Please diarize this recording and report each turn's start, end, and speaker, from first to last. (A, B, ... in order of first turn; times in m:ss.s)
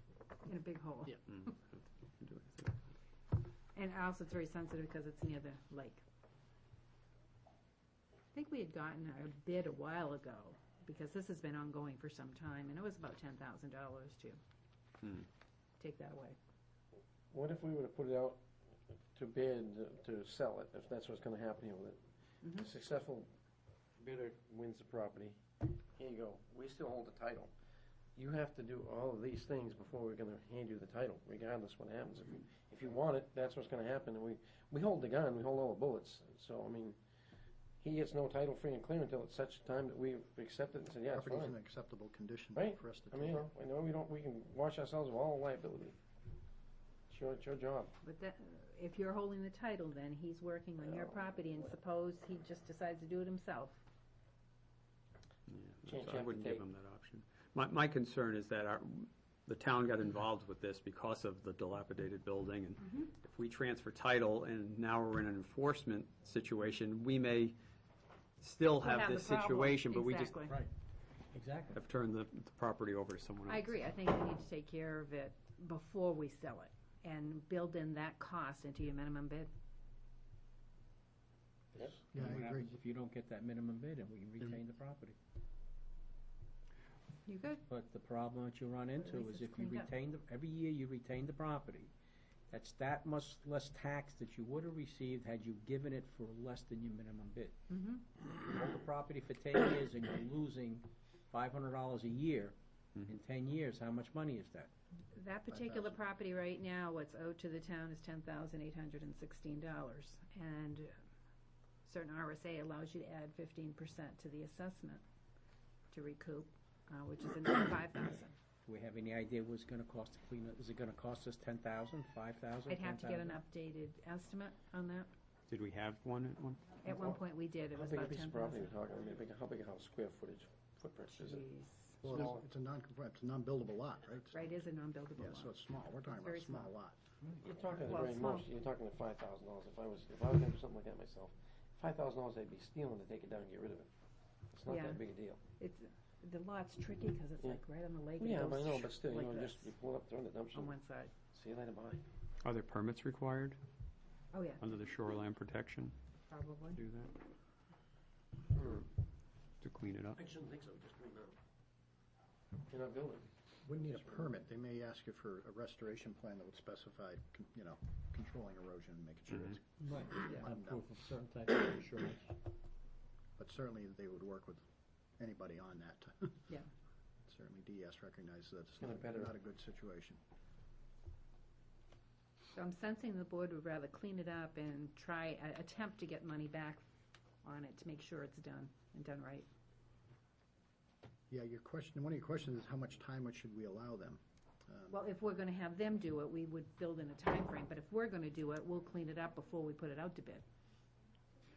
0:00.4-0:01.5 A
0:01.3-0:02.8 B
0:03.7-0:06.0 A
0:08.3-0:14.4 A
0:15.8-0:16.4 A
0:17.3-0:18.4 C
0:19.1-0:23.3 C
0:22.4-0:22.7 A
0:24.0-0:27.5 C
0:28.2-0:37.0 C
0:37.8-0:41.6 C
0:41.1-0:43.5 D
0:42.5-0:46.0 C
0:47.1-0:47.9 C
0:48.0-0:53.8 A
0:55.5-1:07.6 B
0:55.8-0:56.6 C
1:08.4-1:10.6 B
1:08.8-1:10.6 A
1:11.3-1:11.8 E
1:11.7-1:13.6 B
1:13.5-1:19.5 A
1:21.8-1:25.2 E
1:22.1-1:22.7 D
1:27.3-1:27.6 A
1:27.7-1:31.9 E
1:29.0-1:29.9 A
1:32.5-1:37.6 E
1:37.7-1:38.0 A
1:38.3-1:44.7 E
1:45.1-1:51.0 A
1:45.5-1:46.0 D
1:51.8-1:55.0 A
1:55.9-1:58.4 A
1:58.7-2:03.4 E
2:02.7-2:05.1 A
2:05.5-2:06.8 B
2:06.8-2:08.7 A
2:07.7-2:11.4 C
2:11.1-2:12.0 A
2:12.0-2:12.4 C
2:12.0-2:14.4 D
2:14.3-2:16.7 A
2:15.2-2:17.1 D
2:17.4-2:23.9 C
2:17.8-2:18.5 A
2:24.5-2:25.4 C
2:24.7-2:29.7 A
2:28.2-2:30.8 C
2:30.5-2:31.1 A
2:31.3-2:32.0 C
2:32.4-2:33.6 B
2:34.3-2:34.6 A
2:34.6-2:36.0 B
2:36.3-2:36.8 A
2:36.8-2:37.1 B
2:38.5-2:38.9 C
2:39.6-2:40.2 B
2:40.2-2:41.4 C
2:42.7-2:43.3 C
2:43.6-2:50.8 D
2:49.8-2:52.4 E
2:53.4-2:54.7 D
2:55.2-2:56.4 D
2:57.3-3:00.2 D
2:58.8-2:59.3 C
3:02.5-3:06.8 A
3:07.4-3:09.5 A
3:11.3-3:15.0 D
3:14.9-3:20.4 A